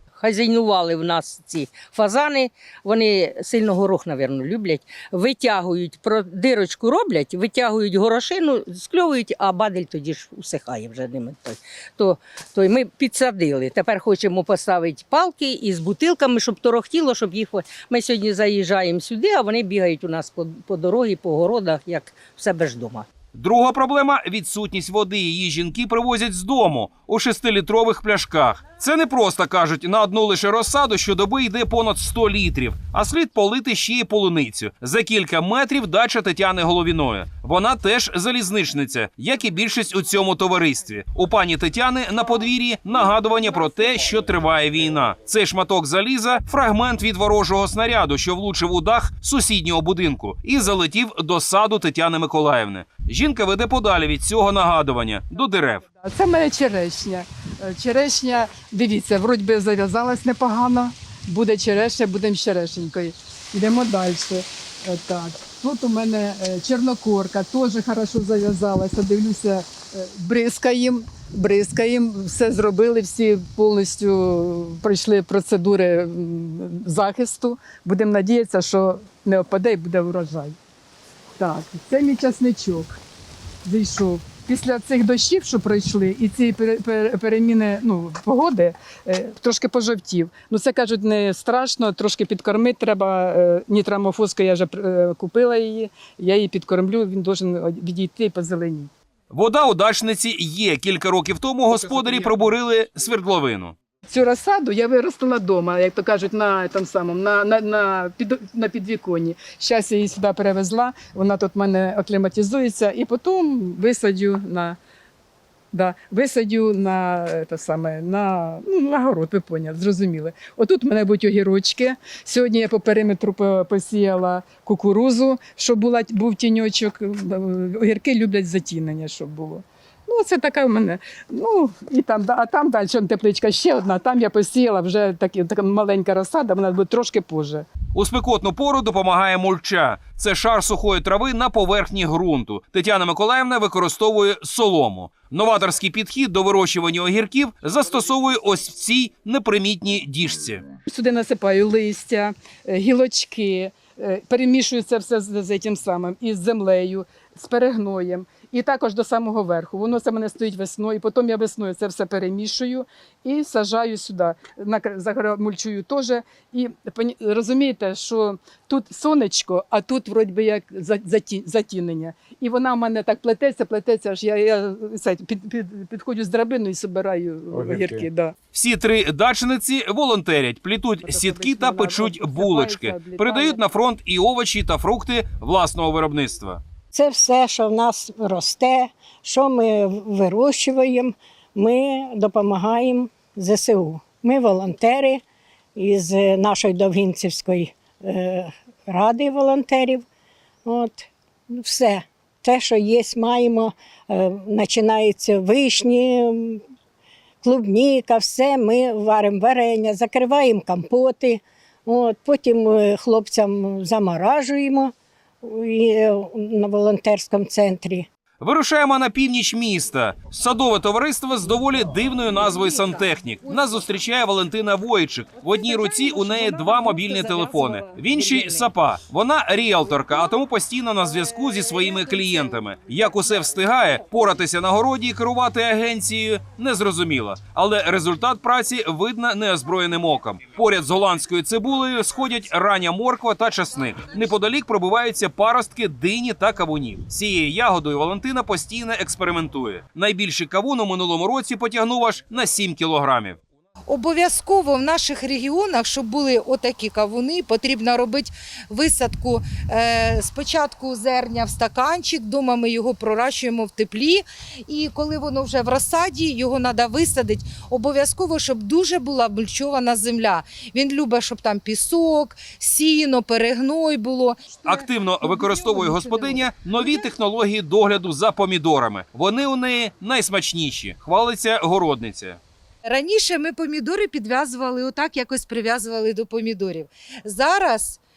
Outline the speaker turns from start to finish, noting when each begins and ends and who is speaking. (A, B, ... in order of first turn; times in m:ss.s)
0:00.2-0:23.0 A
0:23.3-0:55.8 B
0:56.0-1:20.5 C
1:21.4-1:23.0 C
1:23.6-1:38.9 C
1:39.3-1:43.7 B
1:42.0-1:42.4 C
1:44.1-1:54.8 C
1:55.7-2:17.6 C
2:17.9-2:30.6 B
2:30.8-2:58.3 C
2:58.5-3:06.6 B
3:01.0-3:03.6 C
3:06.9-3:15.2 D
3:15.8-3:20.0 D
3:20.6-3:26.6 D
3:27.4-3:38.1 D
3:38.4-4:13.4 B
3:42.5-3:43.8 E
3:45.8-3:48.0 E
4:13.9-4:37.1 E
4:34.6-4:42.4 B
4:42.8-4:48.0 E